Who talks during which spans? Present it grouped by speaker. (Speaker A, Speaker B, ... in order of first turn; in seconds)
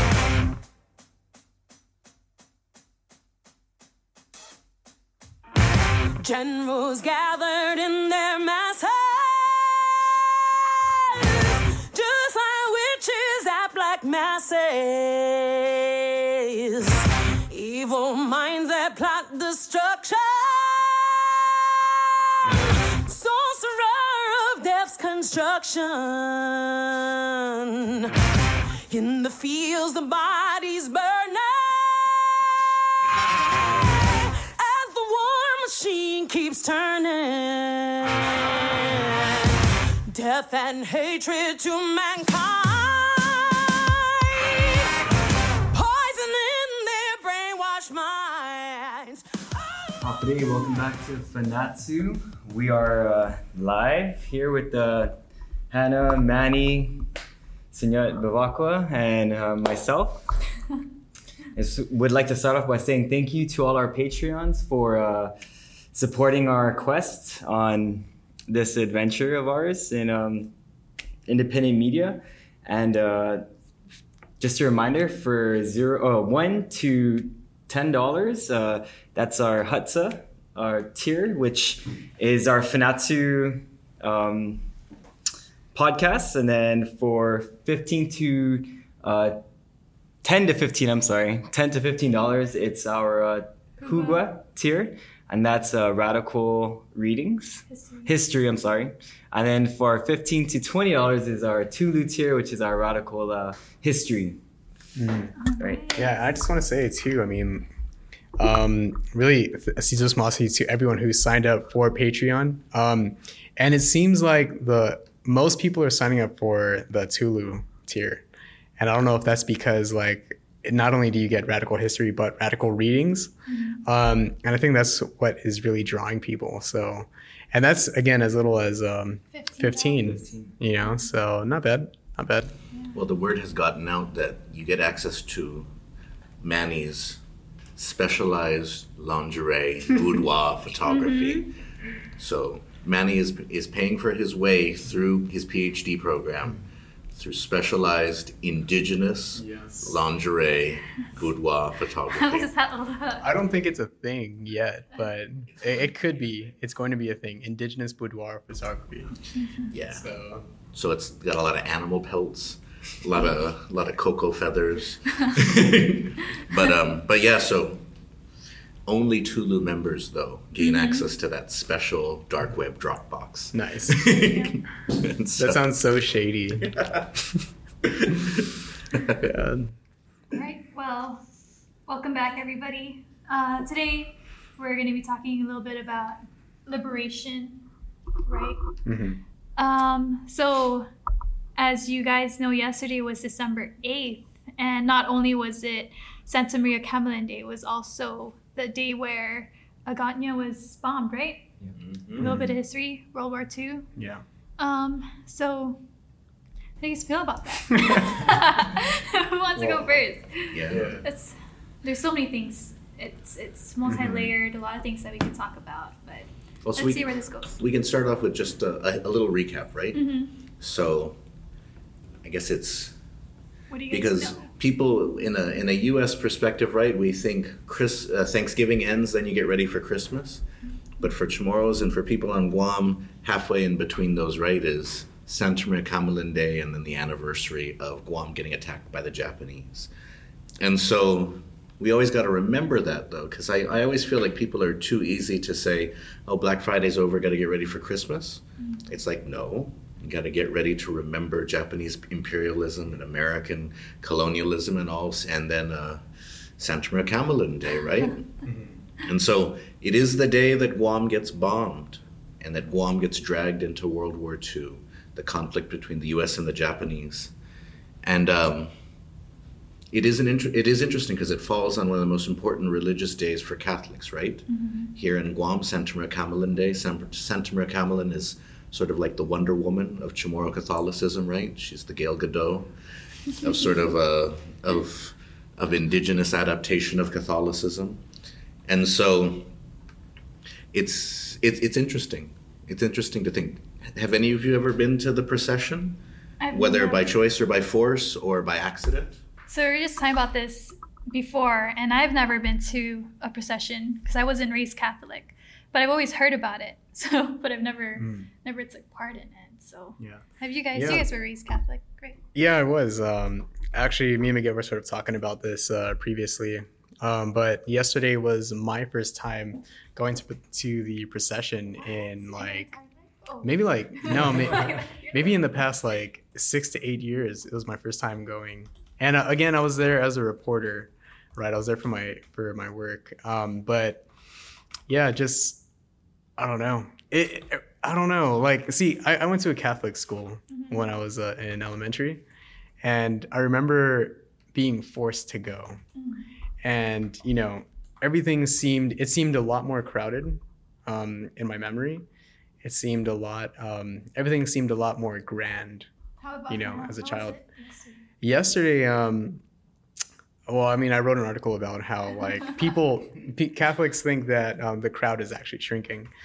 Speaker A: 6.2-28.1, 28.9-32.9, 33.6-44.9, 45.7-50.1
Speaker B: 50.0-57.0, 57.7-60.2, 61.5-65.3, 65.9-70.5, 71.3-73.5, 74.4-84.7, 85.7-89.4, 90.2-104.4, 105.6-105.8, 130.0-130.6
Speaker C: 93.8-94.2, 97.7-98.1, 105.4-106.2, 123.5-123.8, 129.3-130.2, 132.7-133.0, 140.8-141.5, 152.1-153.3, 159.3-159.7, 170.6-171.0, 174.1-174.6, 180.3-181.2, 181.8-187.6, 188.2-188.6, 189.6-190.9, 191.6-201.5, 202.1-203.9, 204.6-205.8, 206.8-217.5, 219.9-220.3, 223.7-224.5, 274.5-274.9, 296.4-297.1, 299.5-312.2, 321.8-325.5, 340.5-340.9, 345.9-346.3, 356.2-358.1
Speaker D: 105.0-105.3, 105.9-107.7, 108.4-118.2, 118.8-123.3, 123.8-132.6, 149.3-150.0, 153.2-159.2, 159.8-160.4, 173.5-174.1, 175.4-177.4, 179.1-179.7, 188.8-189.2, 202.2-202.6, 203.9-204.2, 207.9-208.3, 209.6-209.9, 210.7-211.1, 213.8-214.3, 258.5-258.7, 308.0-308.3, 310.7-311.1, 312.3-322.7, 323.4-334.1, 334.9-335.6, 336.4-342.2, 342.8-345.8, 346.6-352.1, 352.6-355.9, 356.5-357.4, 358.2-359.4, 360.5-366.1
Speaker E: 132.9-135.7, 136.4-137.2, 137.8-141.5, 142.2-146.6, 147.1-152.5, 159.7-160.1, 160.7-167.8, 168.8-175.6, 176.6-177.1, 177.9-179.2, 201.8-202.4, 210.5-211.0, 216.6-220.1, 220.6-221.2, 222.2-222.9, 223.9-230.4, 231.0-239.9, 240.6-256.0, 256.6-258.4, 259.0-267.3, 268.0-268.7, 269.9-282.7, 283.3-288.0, 288.7-289.5, 290.7-296.0, 296.5-299.2